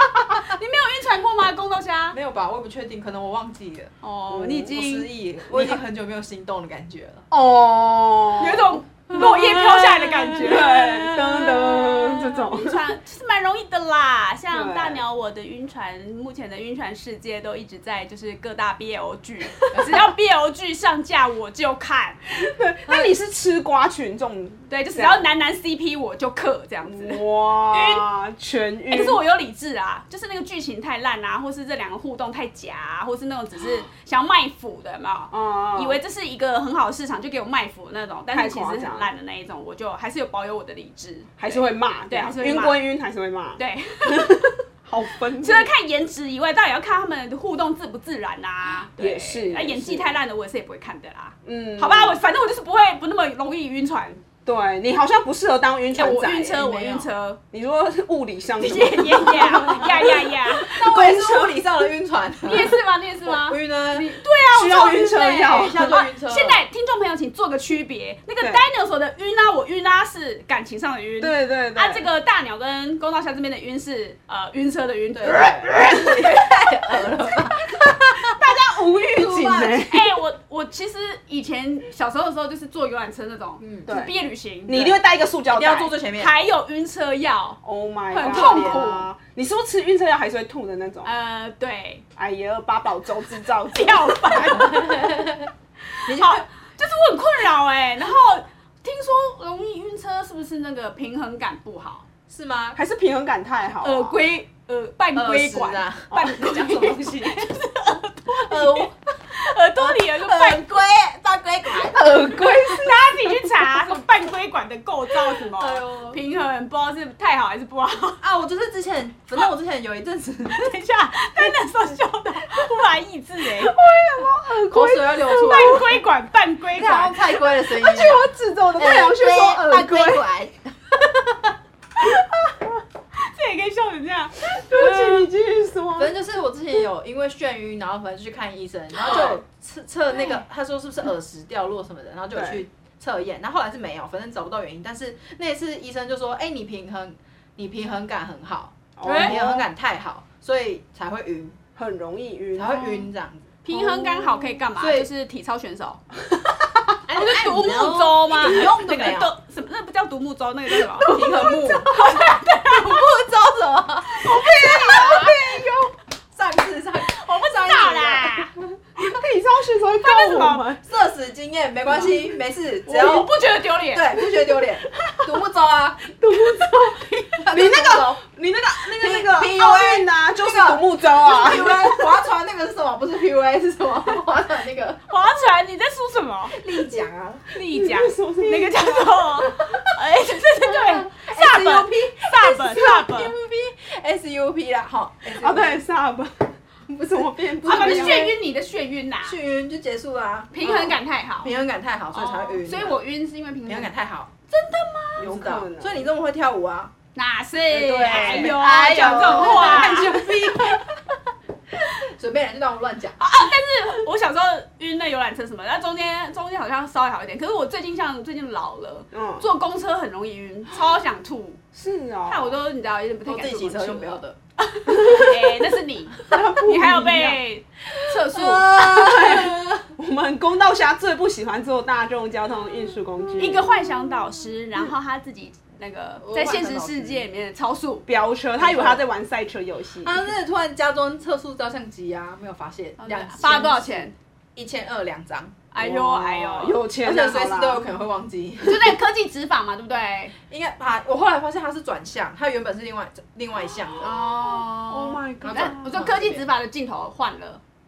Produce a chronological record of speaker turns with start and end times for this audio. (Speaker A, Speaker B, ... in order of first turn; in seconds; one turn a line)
Speaker A: 0.3-2.2
Speaker B: 2.1-7.2
Speaker A: 4.0-5.1
Speaker C: 5.5-5.8
Speaker C: 7.3-12.8
Speaker A: 8.4-22.2
Speaker B: 9.1-10.5
Speaker C: 14.5-15.0
Speaker C: 22.3-25.3
Speaker B: 22.9-23.1
Speaker A: 24.7-28.0
Speaker C: 26.8-29.2
Speaker A: 28.9-42.8
Speaker C: 35.3-36.0
Speaker C: 38.3-39.1
Speaker C: 41.4-45.7
Speaker A: 43.6-44.5
Speaker A: 45.4-54.2
Speaker C: 49.0-50.2
Speaker C: 51.4-52.2
Speaker C: 54.4-56.6
Speaker B: 56.0-57.1
Speaker A: 56.0-57.4
Speaker C: 57.5-61.6
Speaker A: 58.6-60.8
Speaker B: 60.6-64.2
Speaker A: 62.4-76.1
Speaker C: 64.5-65.9
Speaker B: 65.5-66.6
Speaker C: 71.2-72.1
Speaker B: 75.1-78.3
Speaker C: 75.3-75.8
Speaker C: 78.3-80.2
Speaker B: 79.0-79.8
Speaker A: 79.6-85.0
Speaker B: 83.6-83.9
Speaker C: 83.9-85.9
Speaker B: 85.5-86.3
Speaker A: 86.1-87.6
Speaker C: 87.6-91.1
Speaker A: 88.1-89.1
Speaker B: 88.1-88.9
Speaker A: 91.0-92.0
Speaker C: 92.2-94.6
Speaker A: 93.5-95.2
Speaker B: 94.5-95.5
Speaker A: 95.9-102.0
Speaker B: 96.0-96.4
Speaker B: 102.3-102.8
Speaker C: 102.8-104.2
Speaker A: 103.8-110.6
Speaker B: 105.1-107.5
Speaker C: 106.1-106.4
Speaker B: 108.3-109.0
Speaker B: 109.8-112.8
Speaker C: 111.8-113.4
Speaker A: 112.7-118.2
Speaker B: 115.5-116.2
Speaker B: 118.2-121.1
Speaker A: 120.8-123.7
Speaker C: 123.6-125.9
Speaker B: 124.7-125.9
Speaker A: 125.3-127.2
Speaker B: 126.8-128.2
Speaker C: 127.7-130.2
Speaker B: 128.8-131.5
Speaker A: 133.2-134.9
Speaker C: 134.5-136.2
Speaker B: 136.0-151.5
Speaker C: 142.3-142.6
Speaker C: 149.0-149.7
Speaker A: 149.0-149.3
Speaker C: 151.8-153.0
Speaker B: 152.5-153.6
Speaker A: 153.7-156.0
Speaker C: 153.7-154.7
Speaker B: 154.8-155.1
Speaker B: 157.1-159.3
Speaker A: 157.1-161.2
Speaker B: 161.0-161.9
Speaker A: 161.8-163.0
Speaker B: 162.7-168.5
Speaker A: 164.1-165.4
Speaker A: 167.0-168.5
Speaker C: 169.0-170.8
Speaker A: 170.0-170.7
Speaker B: 170.8-178.2
Speaker A: 172.8-174.1
Speaker C: 176.2-182.1
Speaker B: 178.8-185.0
Speaker A: 185.1-186.6
Speaker B: 186.5-187.4
Speaker A: 187.5-193.3
Speaker C: 187.7-189.2
Speaker B: 189.5-189.8
Speaker B: 190.7-195.8
Speaker C: 195.3-198.3
Speaker A: 197.6-199.4
Speaker B: 197.7-198.3
Speaker B: 199.2-203.0
Speaker A: 200.5-201.5
Speaker A: 202.1-203.9
Speaker B: 203.7-204.3
Speaker A: 204.5-205.4
Speaker C: 205.2-206.1
Speaker B: 205.2-206.9
Speaker A: 207.2-210.2
Speaker C: 207.7-209.8
Speaker B: 208.1-211.0
Speaker B: 211.9-213.2
Speaker A: 213.2-221.6
Speaker C: 219.1-219.5
Speaker C: 221.7-222.6
Speaker A: 222.2-228.8
Speaker B: 223.2-224.4
Speaker C: 225.0-225.4
Speaker C: 226.3-227.4
Speaker C: 228.3-233.7
Speaker B: 228.4-229.8
Speaker A: 233.4-238.1
Speaker B: 236.2-237.3
Speaker C: 238.1-240.1
Speaker B: 238.6-239.0
Speaker B: 240.0-244.0
Speaker A: 243.0-244.1
Speaker B: 244.6-245.6
Speaker A: 245.7-246.8
Speaker C: 245.8-247.8
Speaker B: 247.0-249.0
Speaker A: 248.6-250.3
Speaker B: 250.5-254.2
Speaker A: 254.0-257.6
Speaker C: 254.2-256.2
Speaker B: 255.4-256.5